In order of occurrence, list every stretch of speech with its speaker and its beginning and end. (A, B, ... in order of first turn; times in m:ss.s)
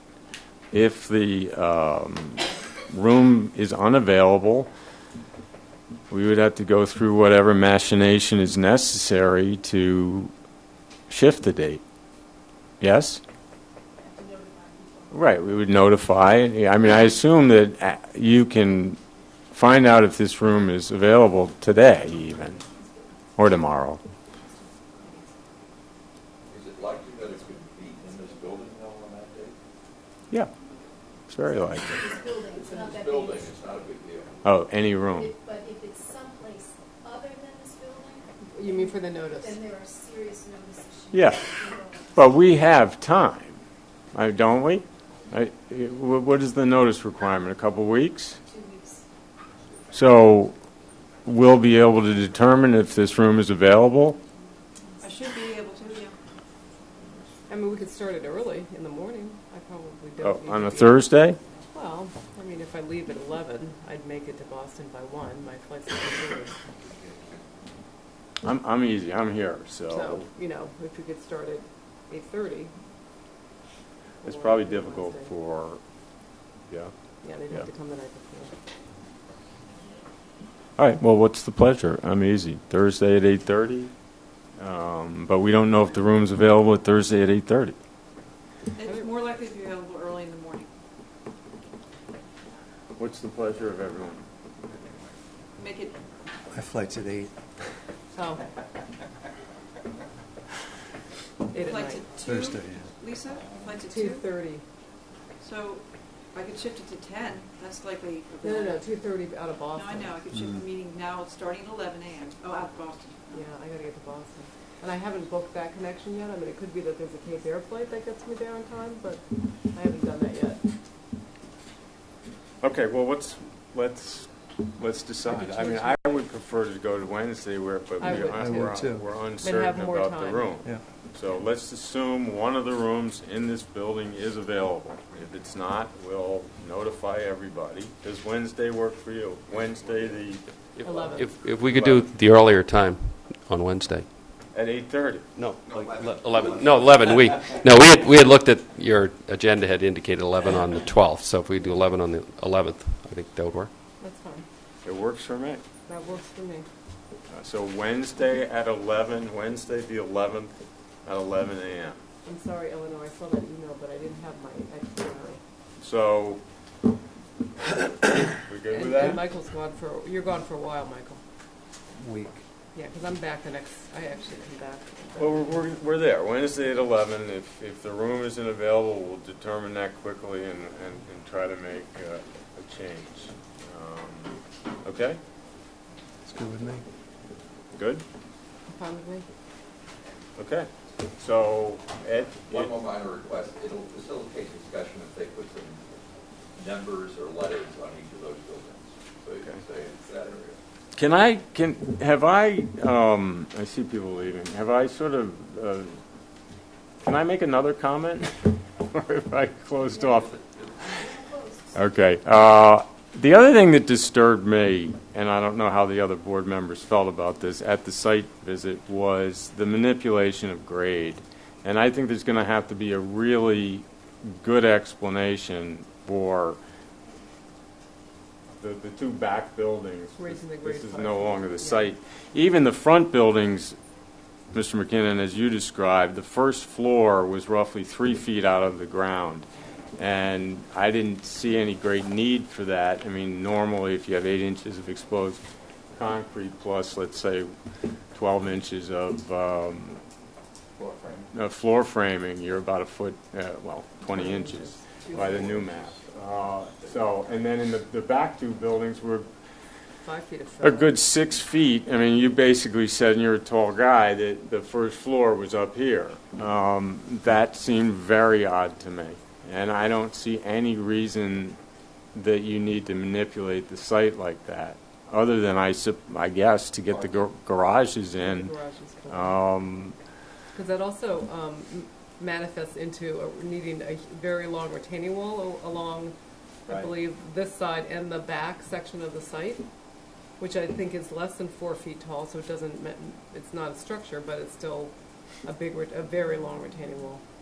0:00.7-0:04.7 A
0:06.1-0:10.3 A
0:11.1-0:11.8 A
0:12.8-0:13.2 A
0:14.1-0:15.0 B
0:15.1-0:19.0 A
0:19.5-0:22.6 A
0:23.4-0:24.0 A
0:26.5-0:29.6 C
0:31.3-0:32.2 A
0:32.1-0:32.9 B
0:32.5-0:34.3 C
0:34.4-0:35.4 A
0:35.3-0:38.9 B
0:38.5-0:39.7 D
0:39.4-0:41.9 B
0:41.1-0:43.6 A
0:44.1-0:48.4 A
0:48.5-0:49.0 B
0:49.9-0:50.5 A
0:51.2-0:54.2 A
0:55.0-0:56.2 E
0:57.5-1:01.0 D
1:00.2-1:01.4 A
1:01.7-1:06.6 D
1:08.4-1:10.3 A
1:09.9-1:12.7 D
1:14.2-1:15.3 D
1:14.2-1:15.8 A
1:17.2-1:18.6 D
1:20.8-1:23.9 A
1:24.6-1:27.8 A
1:28.7-1:30.7 E
1:33.0-1:34.2 A
1:35.6-1:36.0 E
1:36.5-1:37.3 F
1:38.1-1:38.4 D
1:41.5-1:42.1 D
1:41.6-1:44.2 E
1:42.2-1:42.9 F
1:43.8-1:44.6 D
1:45.4-1:48.8 E
1:48.4-1:50.2 D
1:49.8-1:53.4 E
1:50.3-1:50.6 F
1:53.3-2:00.6 D
2:02.6-2:20.4 A
2:05.3-2:06.2 D
2:08.0-2:08.8 D
2:08.0-2:09.2 F
2:09.4-2:10.7 D
2:20.8-2:24.0 G
2:20.8-2:21.3 D
2:21.6-2:22.1 A
2:24.5-2:25.2 A
2:25.4-2:33.7 G
2:25.4-2:26.2 F
2:25.7-2:27.2 C
2:34.0-2:34.4 D
2:34.8-2:35.6 A
2:35.9-2:36.7 D
2:37.3-2:40.5 A
2:41.0-2:42.0 A
2:42.2-2:45.4 D
2:45.8-2:46.4 A
2:48.2-2:49.2 A
2:48.7-2:51.2 D
2:52.0-2:52.4 F
2:52.7-2:55.8 D
2:55.2-3:05.2 A
3:06.2-3:06.8 F
3:07.8-3:08.0 A
3:08.7-3:09.2 D
3:10.4-3:12.7 A
3:12.5-3:15.8 C
3:16.5-3:20.6 C
3:20.9-3:26.0 A
3:27.0-3:30.4 A
3:30.3-3:30.6 C
3:31.2-3:31.6 B
3:31.7-3:46.6 A
3:48.5-3:53.8 A
3:50.2-3:51.9 D
3:54.5-4:05.4 A
4:05.9-4:07.5 A
4:08.1-4:10.0 A
4:10.8-4:11.2 C
4:11.3-4:19.3 A
4:14.1-4:15.5 D
4:20.0-4:20.9 D
4:20.6-4:31.6 A
4:32.1-4:38.5 A
4:36.9-4:37.2 C
4:38.2-4:39.4 D
4:39.1-4:40.0 A
4:40.5-4:46.1 D
4:46.6-4:49.6 D
4:50.4-4:54.9 D
4:55.4-4:57.2 D